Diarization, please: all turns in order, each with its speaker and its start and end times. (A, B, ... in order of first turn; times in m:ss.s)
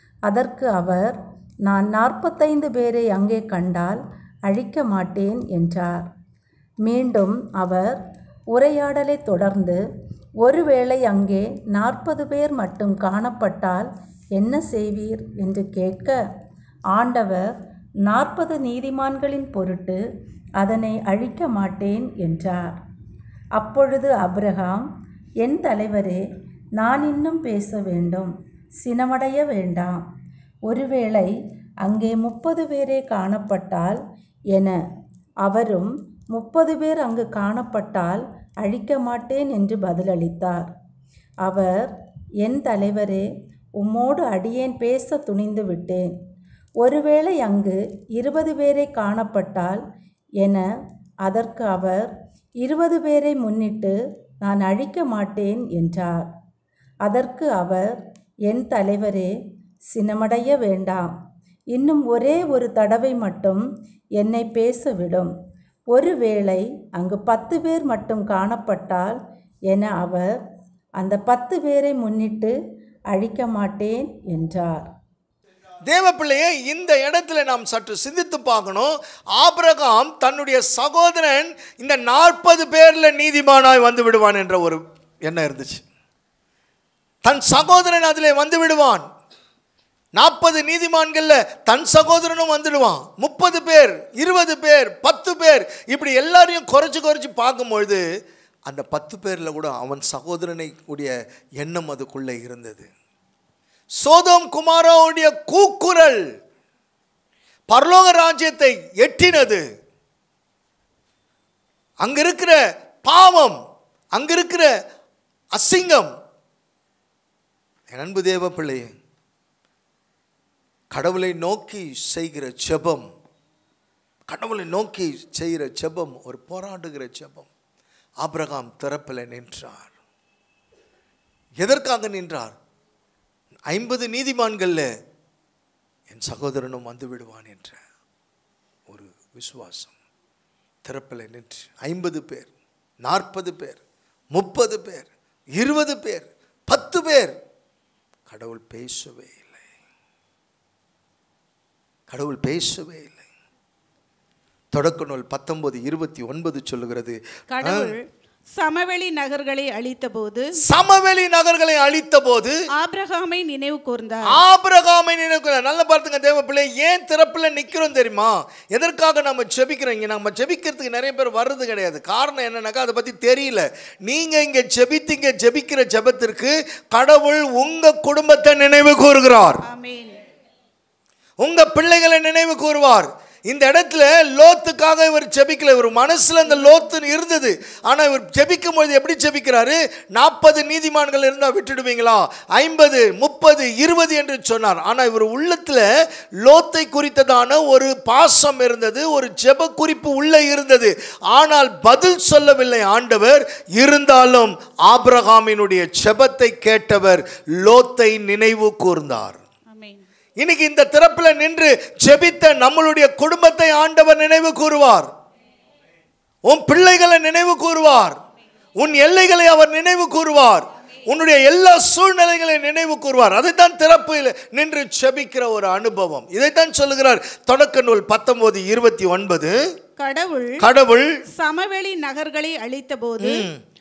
0:00.3-0:06.1 A
0:06.8-0:09.8 A
0:10.4-0:16.2 A
0:16.9-0:17.5 A
0:18.0-0:20.0 A
0:20.6-0:22.8 A
0:23.6-0:24.9 A
0:25.4-0:26.2 A
0:26.8-0:30.0 A
0:30.7-0:34.0 A
0:34.5-0:34.8 A
0:35.4-0:40.7 A
0:41.4-0:43.2 A
0:43.8-0:46.1 A
0:46.8-0:49.8 A
0:50.4-0:50.6 A
0:51.2-0:56.3 A
0:57.0-0:58.0 A
0:58.5-0:59.3 A
0:59.9-1:01.1 A
1:01.7-1:03.6 A
1:04.2-1:05.3 A
1:05.9-1:09.2 A
1:09.7-1:10.3 A
1:11.0-1:12.6 A
1:13.1-1:14.9 A
1:15.9-1:25.8 B
1:27.2-1:29.1 B
1:30.2-1:38.0 B
1:38.7-1:42.9 B
1:44.0-1:46.2 B
1:47.7-1:49.6 B
1:52.0-1:53.6 B
1:54.1-1:54.7 B
1:55.5-1:56.1 B
1:57.9-1:58.9 B
2:00.9-2:03.1 B
2:04.3-2:07.5 B
2:08.2-2:09.9 B
2:11.6-2:12.5 B
2:13.7-2:14.9 B
2:16.1-2:17.8 B
2:18.9-2:19.9 B
2:20.8-2:22.5 B
2:23.0-2:23.8 B
2:24.3-2:27.4 B
2:28.3-2:29.6 B
2:32.1-2:33.2 B
2:34.7-2:37.9 B
2:37.5-2:38.0 C
2:38.6-2:40.6 C
2:40.6-2:42.6 B
2:42.8-2:44.3 C
2:44.3-2:59.6 B
2:59.6-3:00.2 C
3:01.4-3:15.9 B
3:06.6-3:06.8 C
3:16.4-3:29.4 B
3:29.7-3:30.0 C
3:30.4-3:35.1 B
3:36.4-3:38.2 B
3:38.8-3:49.6 B
3:50.0-3:50.6 C
3:50.6-3:51.2 B
3:51.4-3:53.4 C
3:53.2-3:53.6 B